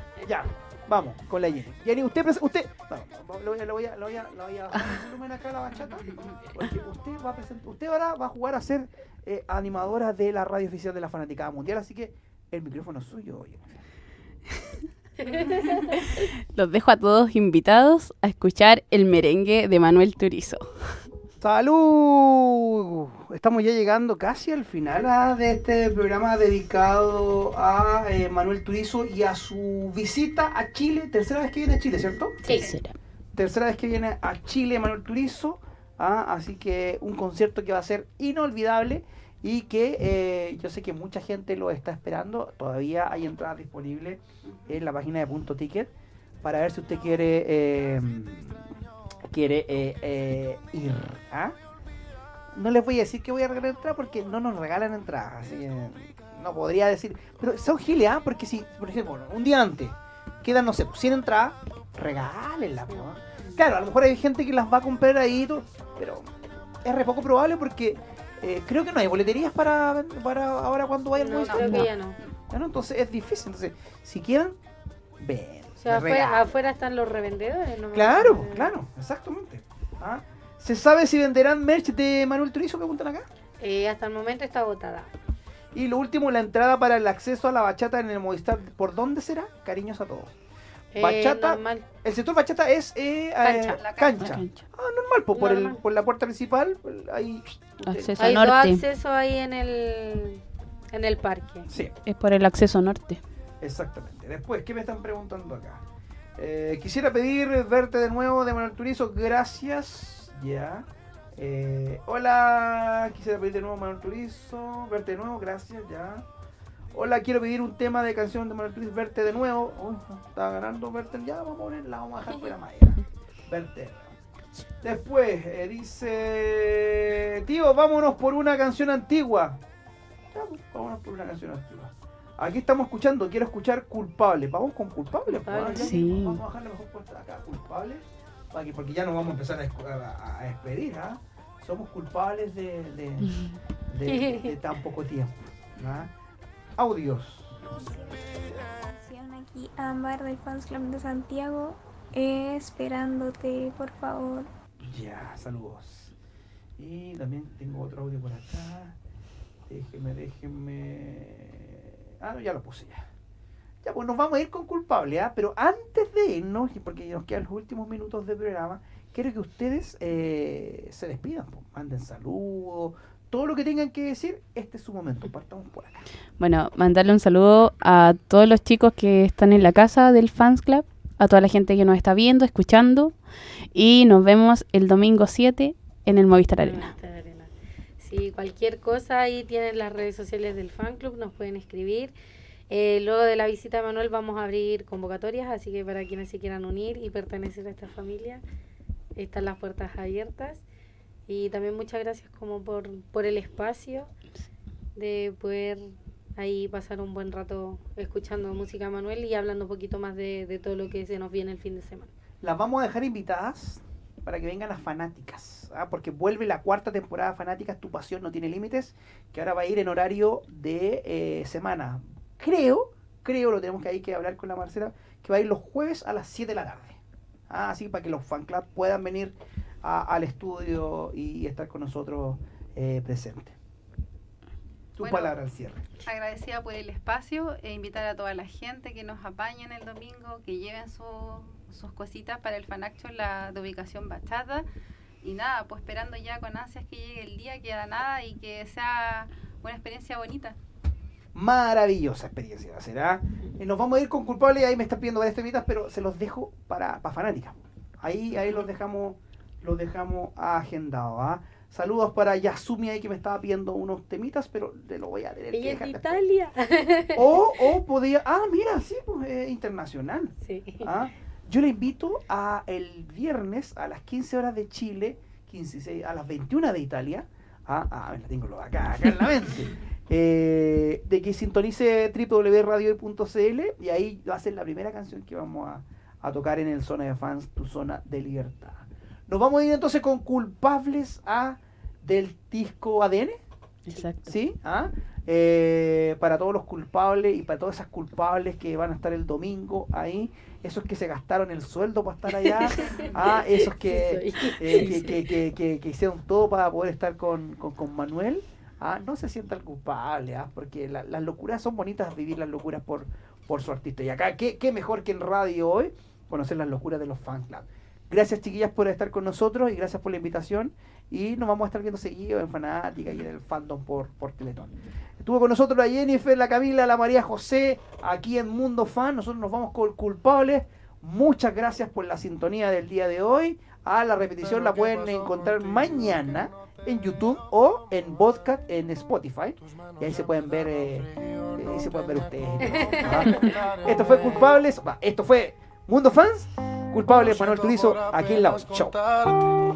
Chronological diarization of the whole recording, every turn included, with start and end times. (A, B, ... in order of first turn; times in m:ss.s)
0:00.2-0:13.7 A
0:06.0-0:06.4 B
0:15.2-0:15.8 C
0:16.1-0:21.0 D
0:21.4-0:32.4 A
0:32.4-0:32.7 C
0:32.5-0:32.8 B
0:32.5-0:33.0 D
0:33.4-0:45.9 A
0:44.4-0:44.8 B
0:46.4-0:48.6 A
0:49.3-0:51.6 A
0:52.5-1:06.3 A
1:06.8-1:11.9 A
1:11.2-1:12.2 C
1:11.5-1:11.8 B
1:11.6-1:11.9 D
1:12.5-1:14.6 A
1:15.2-1:16.5 A
1:15.8-1:18.7 C
1:17.9-1:23.3 A
1:23.6-1:25.1 C
1:25.7-1:30.3 A
1:30.9-1:31.9 C
1:31.0-1:38.4 A
1:33.4-1:34.6 D
1:33.8-1:34.3 B
1:35.4-1:35.8 C
1:37.8-1:38.8 D
1:38.2-1:41.7 C
1:41.7-1:41.9 A
1:42.1-1:43.2 D
1:43.6-1:45.8 A
1:46.4-1:56.2 A
1:56.9-2:04.1 A
2:04.8-2:09.6 A
2:10.3-2:26.1 A
2:15.3-2:16.0 C
2:15.7-2:16.4 D
2:23.2-2:23.5 D
2:24.0-2:24.6 C
2:26.8-2:27.6 A
2:27.7-2:34.5 E
2:34.8-2:36.1 A
2:36.8-2:39.0 A
2:39.7-2:43.1 A
2:43.8-2:56.1 A
2:56.4-3:03.2 D
3:03.7-3:06.9 D
3:06.6-3:12.2 C
3:12.7-3:18.4 C
3:19.2-3:20.6 C
3:21.3-3:24.1 C
3:25.0-3:32.1 C
3:32.4-3:47.0 A
3:47.5-3:53.6 A
3:55.0-3:55.9 A
3:55.0-3:55.4 B
3:56.0-4:04.7 B
4:05.2-4:10.6 B
4:11.4-4:26.2 A
4:25.5-4:27.2 C
4:27.2-4:53.4 A
4:30.4-4:31.0 C
4:53.9-4:54.3 D
4:54.2-5:49.1 A
5:02.5-5:05.2 C
5:04.7-5:05.1 D
5:42.7-5:43.5 C